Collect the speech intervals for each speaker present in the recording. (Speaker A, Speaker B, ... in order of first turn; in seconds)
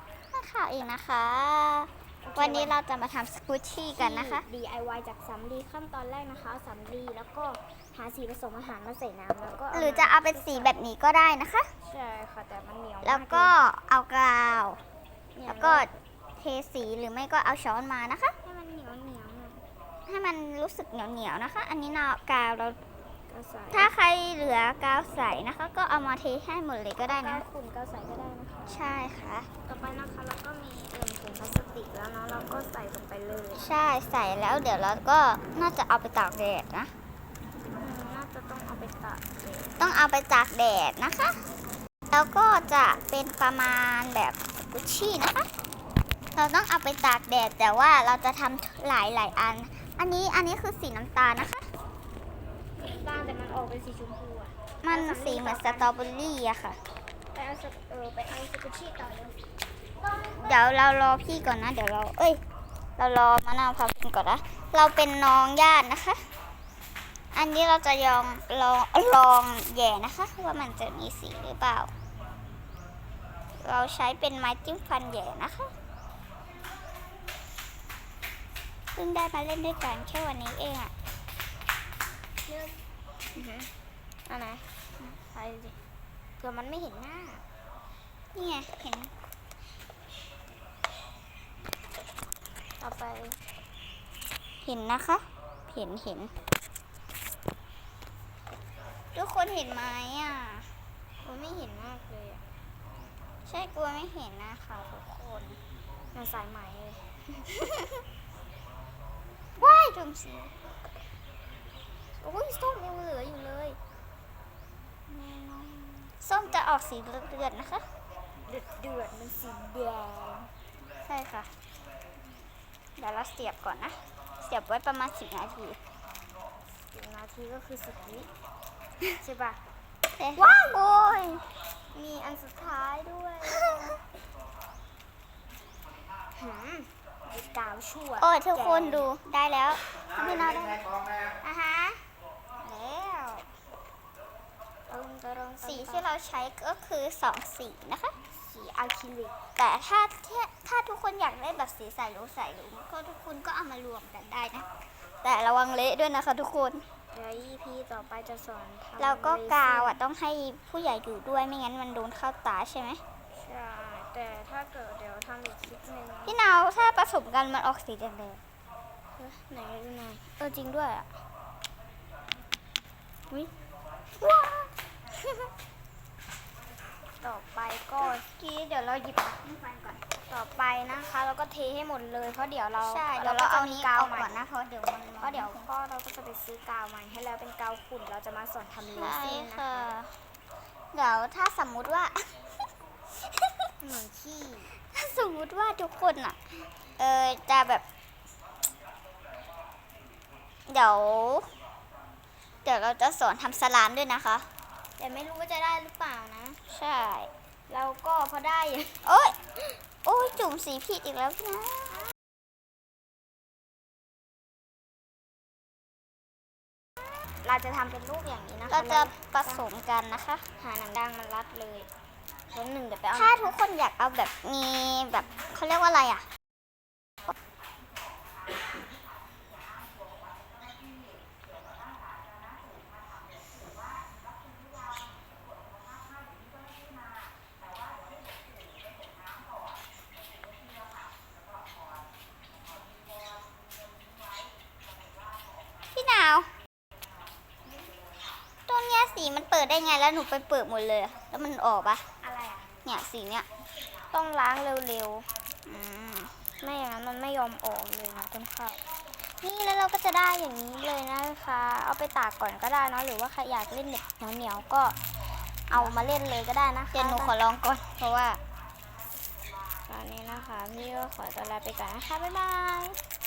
Speaker A: 0.3-4.5, 9.7-11.7, 13.0-14.8, 15.5-18.4, 20.1-22.8, 23.7-27.4, 28.7-29.5, 33.6-36.9, 39.8-41.4, 42.1-45.5, 46.4-51.6, 54.8-56.8, 60.3-62.4, 63.0-66.2, 67.3-71.9, 73.6-75.7, 79.0-80.9, 88.3-89.1, 94.6-96.3, 99.2-100.7, 103.5-105.6, 109.6-110.5, 115.2-115.6, 116.2-117.8, 121.1-121.5, 123.0-125.8, 130.2-131.4, 138.2-140.9, 142.6-143.5, 145.6-148.2, 149.6-154.7, 155.2-156.8, 159.0-163.0, 166.3-168.4, 174.2-174.7, 178.0-180.0, 182.8-185.7, 188.9-190.2, 190.9-192.4, 194.8-196.4, 197.0-197.8, 200.7-201.5, 202.7-204.5, 206.7-207.3, 209.0-209.4, 210.1-212.0, 218.7-220.5, 223.1-226.3, 245.9-246.5, 248.7-252.0, 252.8-253.5, 255.7-256.3, 265.7-266.0, 266.9-268.4
Speaker B: 2.2-2.8, 4.0-10.8, 11.8-13.6, 15.3-15.9, 18.4-19.6, 23.3-23.9, 27.1-28.9, 29.7-33.7, 37.8-39.8, 52.8-55.9, 57.3-59.4, 60.1-60.6, 82.5-82.8, 83.3-83.7, 84.3-84.6, 85.2-85.8, 86.4-87.4, 92.8-93.4, 101.2-102.4, 106.1-107.1, 112.2-113.8, 115.2-116.0, 118.5-120.5, 126.8-128.3, 129.2-129.6, 130.4-130.8, 131.9-134.0, 136.4-139.1, 141.4-142.0, 144.9-146.1, 148.3-149.3, 157.1-160.0, 163.3-166.4, 169.2-171.1, 177.2-178.3, 180.2-184.3, 185.2-189.9, 193.8-194.7, 205.0-206.6, 207.7-209.1, 217.4-219.7, 220.6-221.9, 222.5-223.6, 252.2-252.7, 254.1-255.3, 256.6-265.0, 265.7-267.3, 269.9-273.0